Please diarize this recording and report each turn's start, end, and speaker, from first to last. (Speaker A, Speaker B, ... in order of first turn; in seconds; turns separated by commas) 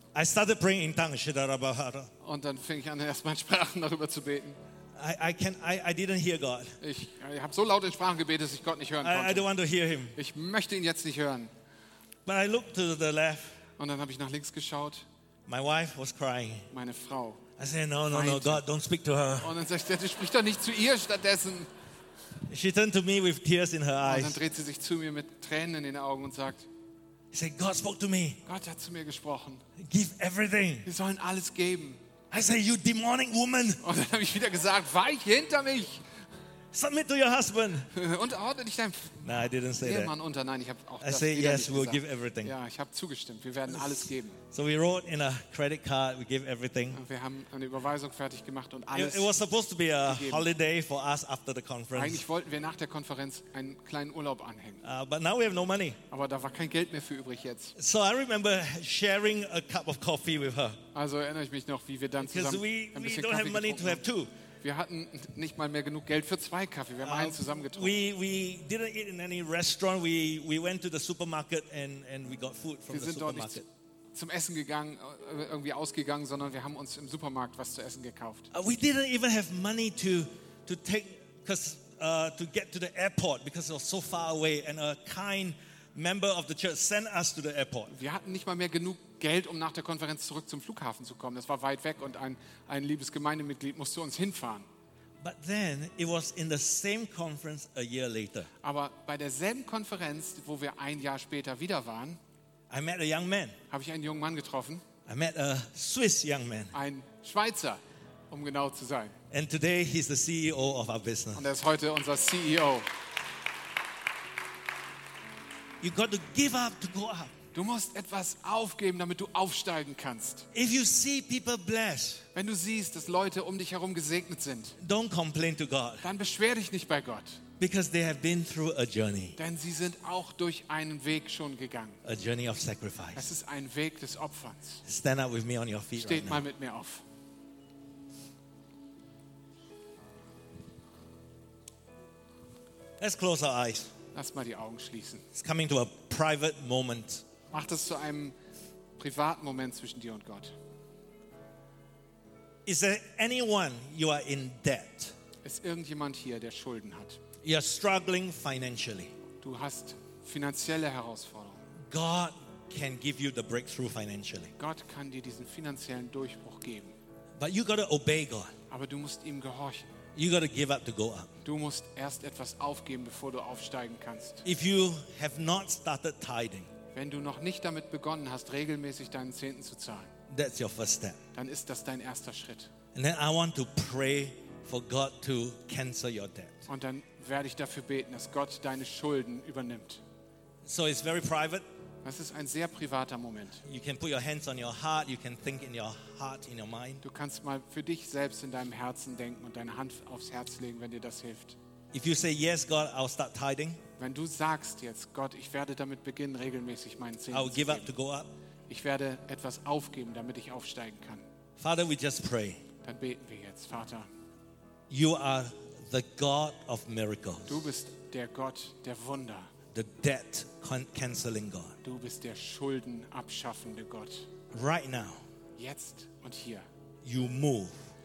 Speaker A: 0.1-2.1, Speaker B: 2.2-4.6, Speaker A: 5.0-6.8, Speaker B: 6.8-9.5, Speaker A: 9.0-10.2, Speaker B: 10.1-11.5, Speaker A: 12.2-13.6, Speaker B: 13.8-15.0, Speaker A: 15.4-16.7, Speaker B: 16.7-17.4, Speaker A: 17.6-19.5, Speaker B: 18.1-18.6, Speaker B: 19.4-21.7, Speaker A: 22.5-24.4, Speaker B: 24.0-26.6, Speaker A: 27.3-28.4, Speaker B: 28.4-29.6, Speaker A: 29.8-30.9, Speaker B: 30.8-32.0, Speaker A: 32.3-33.8, Speaker B: 33.8-36.0, Speaker A: 36.7-37.9, Speaker B: 37.9-44.4, Speaker A: 39.2-40.1, Speaker A: 41.0-42.5, Speaker A: 43.7-47.0, Speaker B: 46.9-49.3, Speaker A: 48.9-52.2, Speaker B: 50.0-50.5, Speaker B: 51.9-54.8, Speaker A: 54.8-56.0, Speaker B: 56.1-57.7, Speaker A: 57.8-60.8, Speaker B: 60.9-64.0, Speaker A: 62.2-64.3, Speaker B: 64.6-67.9, Speaker A: 67.0-73.7, Speaker B: 72.9-78.5, Speaker A: 78.5-87.9, Speaker B: 87.9-94.7, Speaker A: 95.2-98.5, Speaker B: 98.6-102.2, Speaker A: 102.7-103.5, Speaker B: 103.7-104.8, Speaker A: 105.0-106.7, Speaker B: 106.7-109.1, Speaker A: 109.3-111.5, Speaker B: 111.3-112.9, Speaker A: 115.8-117.3, Speaker B: 117.5-120.5, Speaker A: 120.5-122.2, Speaker B: 122.3-124.8, Speaker A: 124.8-126.0, Speaker B: 126.0-127.4, Speaker A: 127.6-129.4, Speaker B: 129.4-132.0, Speaker A: 132.0-133.3, Speaker B: 133.1-134.8, Speaker A: 134.8-136.5, Speaker B: 135.9-137.0, Speaker A: 143.0-143.9, Speaker B: 144.1-145.2, Speaker A: 145.3-147.2, Speaker B: 147.5-148.3, Speaker B: 149.0-150.5, Speaker A: 152.7-155.1, Speaker B: 155.4-157.2, Speaker A: 157.4-159.1, Speaker B: 159.4-161.6, Speaker A: 161.9-164.5, Speaker B: 164.6-166.9, Speaker A: 167.4-168.5, Speaker B: 168.7-169.9, Speaker A: 170.1-171.3, Speaker B: 171.4-174.4, Speaker A: 174.4-176.7, Speaker B: 176.9-180.1, Speaker A: 180.3-181.2, Speaker B: 181.3-182.7, Speaker A: 182.9-186.7, Speaker B: 186.7-190.0, Speaker A: 190.6-191.6, Speaker B: 192.0-193.6, Speaker A: 193.6-197.0, Speaker B: 197.0-201.6, Speaker A: 201.9-203.8, Speaker B: 204.0-207.9, Speaker A: 207.3-208.3, Speaker B: 208.7-211.2, Speaker A: 211.6-212.6, Speaker B: 212.8-214.1, Speaker A: 214.9-217.6, Speaker B: 217.5-219.5, Speaker A: 219.7-221.8, Speaker B: 221.8-224.3, Speaker A: 224.5-225.2, Speaker B: 225.6-226.7, Speaker A: 227.0-227.8